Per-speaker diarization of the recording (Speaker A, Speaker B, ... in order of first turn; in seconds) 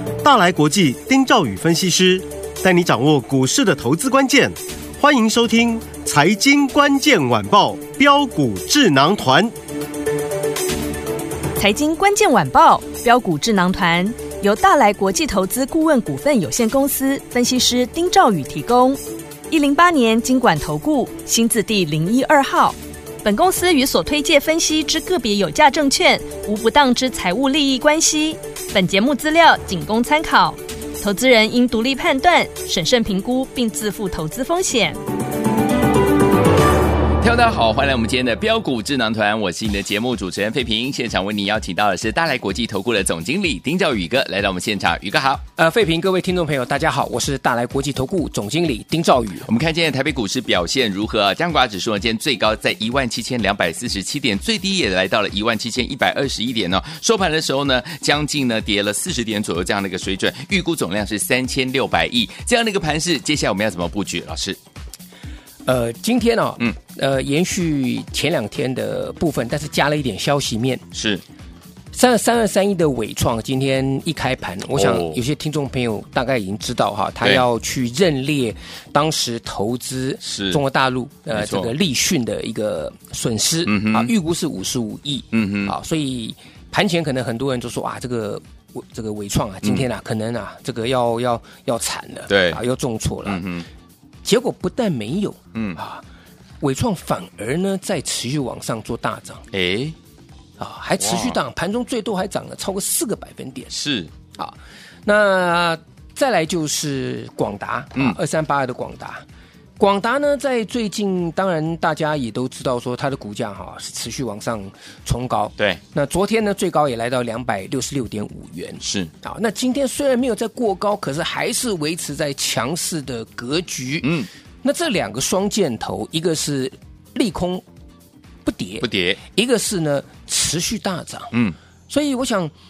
Speaker A: 0.2-9.5
Speaker B: 11.6-35.0
Speaker C: 37.2-45.4, 49.5-64.6, 70.9-71.2, 74.7-75.2, 80.2-80.6, 81.3-81.7, 83.7-84.1, 85.3-85.7, 92.3-92.6, 93.2-93.7, 95.5-95.8, 99.5-100.0, 101.0-101.4, 103.7-104.1, 118.8-119.1, 124.0-124.3, 128.8-129.2
Speaker D: 45.6-49.5, 65.7-70.8, 71.9-93.4, 94.2-96.0, 96.6-99.4, 100.6-103.7, 104.4-109.2, 109.8-124.1, 124.6-127.6, 128.4-131.3, 131.9-132.5